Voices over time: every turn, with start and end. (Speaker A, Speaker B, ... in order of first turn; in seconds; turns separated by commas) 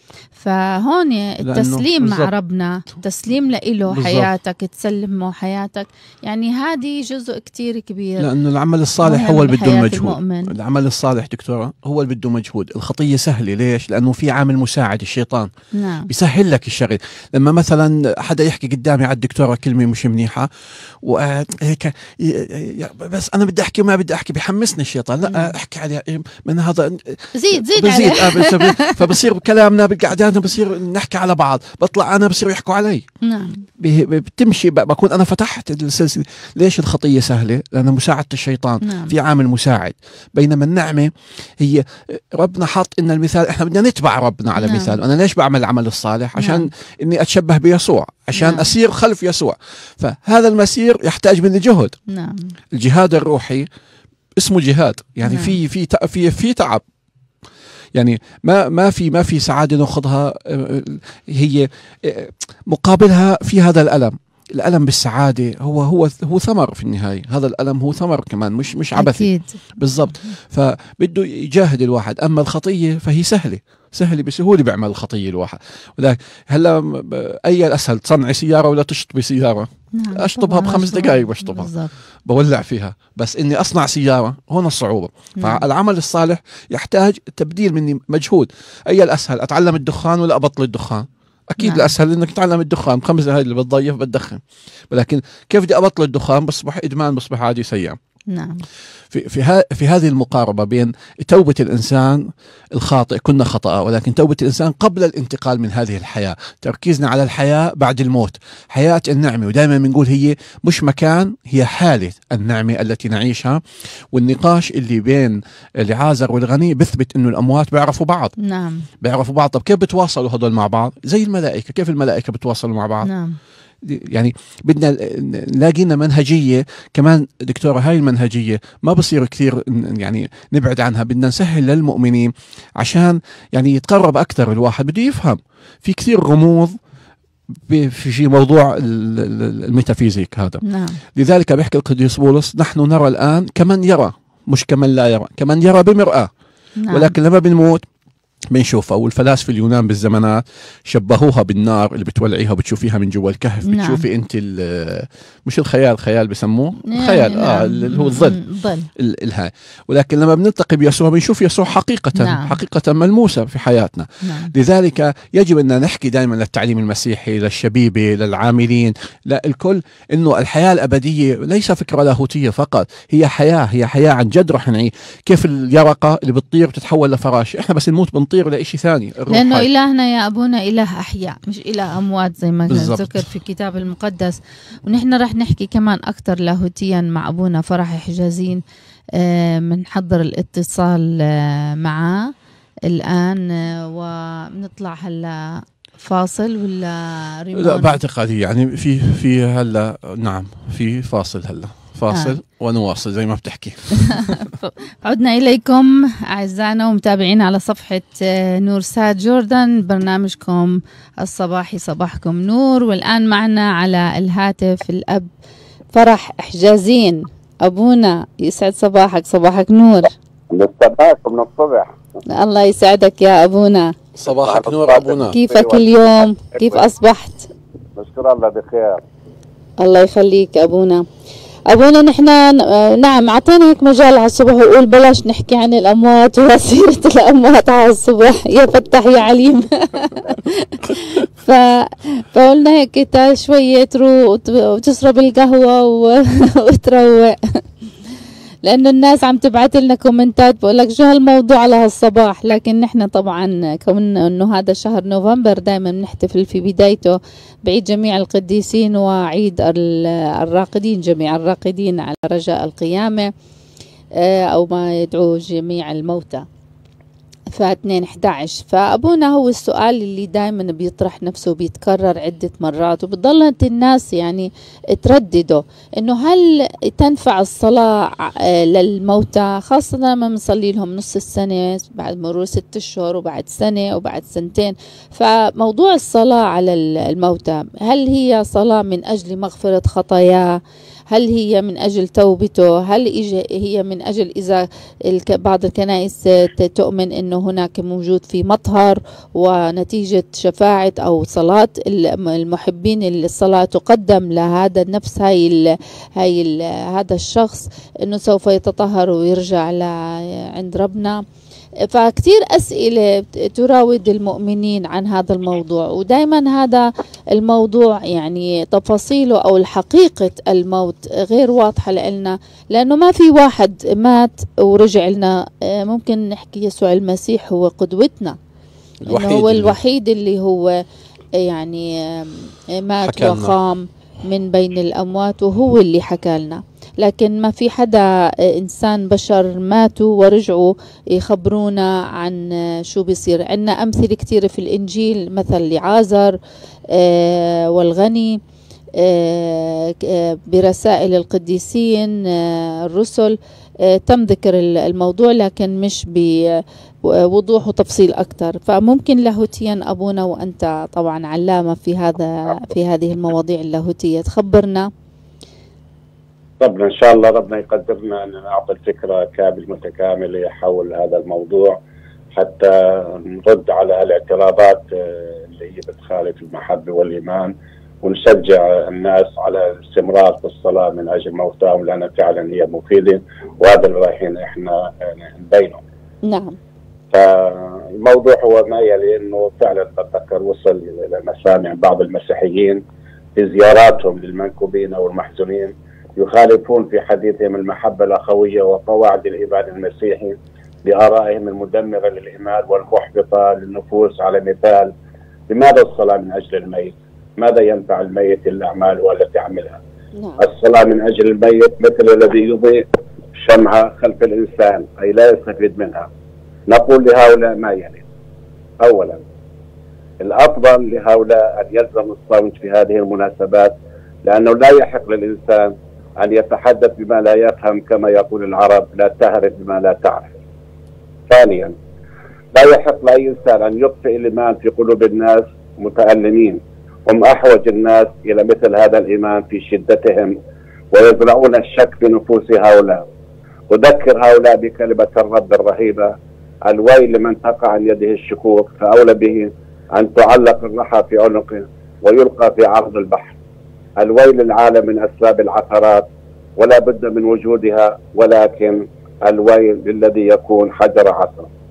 Speaker A: 0.3-8.3, Speaker B: 1.4-2.3, Speaker B: 3.9-4.3, Speaker B: 8.2-15.5, Speaker A: 9.0-10.5, Speaker A: 15.7-16.1, Speaker B: 16.1-33.0, Speaker A: 25.2-25.5, Speaker A: 27.3-29.0, Speaker A: 33.2-33.6, Speaker B: 33.8-51.9, Speaker A: 38.8-39.1, Speaker A: 44.5-45.0, Speaker A: 46.4-46.7, Speaker A: 48.4-48.6, Speaker A: 52.1-52.5, Speaker B: 52.7-53.6, Speaker B: 54.4-56.8, Speaker A: 55.2-55.5, Speaker B: 57.9-81.7, Speaker A: 69.0-70.3, Speaker A: 80.0-81.9, Speaker B: 82.2-98.0, Speaker A: 91.6-91.9, Speaker A: 98.3-98.7, Speaker B: 99.1-113.6, Speaker B: 114.1-118.3, Speaker A: 118.4-118.8, Speaker B: 119.0-123.1, Speaker A: 123.0-123.3, Speaker B: 123.8-136.7, Speaker B: 137.7-140.6, Speaker A: 140.6-141.0, Speaker B: 141.1-146.3, Speaker A: 146.8-147.1, Speaker B: 146.9-147.8, Speaker B: 148.5-158.4, Speaker A: 153.7-154.0, Speaker A: 156.9-158.9, Speaker B: 158.9-179.7, Speaker A: 162.2-162.6, Speaker A: 164.2-164.5, Speaker A: 179.3-188.6, Speaker B: 182.7-183.2, Speaker A: 189.2-192.3, Speaker A: 192.9-198.0, Speaker B: 197.5-204.4, Speaker A: 202.1-202.3, Speaker A: 204.2-215.3, Speaker A: 215.9-220.1, Speaker C: 220.5-221.9, Speaker A: 222.2-223.9, Speaker B: 224.2-225.3, Speaker C: 224.3-225.9, Speaker A: 225.3-227.5, Speaker C: 226.5-226.8, Speaker C: 227.9-229.0, Speaker A: 229.8-231.0, Speaker A: 231.7-247.4, Speaker A: 248.6-263.3, Speaker A: 264.2-266.4, Speaker A: 267.5-305.6, Speaker A: 306.2-311.2, Speaker A: 311.9-328.4, Speaker B: 329.1-329.8, Speaker A: 329.1-330.7, Speaker A: 331.4-346.4, Speaker B: 333.0-333.5, Speaker A: 346.9-348.4, Speaker A: 349.0-364.9, Speaker C: 366.6-371.8, Speaker C: 372.3-385.8, Speaker A: 386.2-386.6, Speaker C: 387.1-392.8, Speaker C: 393.4-404.9, Speaker C: 405.5-409.8, Speaker A: 410.1-410.4, Speaker C: 410.4-412.8, Speaker C: 413.4-416.1, Speaker C: 416.7-418.0, Speaker C: 418.8-419.2, Speaker C: 420.2-430.3, Speaker C: 431.3-431.7, Speaker C: 432.5-440.4, Speaker C: 440.9-443.0, Speaker C: 443.7-446.1, Speaker C: 446.6-453.4, Speaker C: 454.0-456.1, Speaker C: 456.6-461.5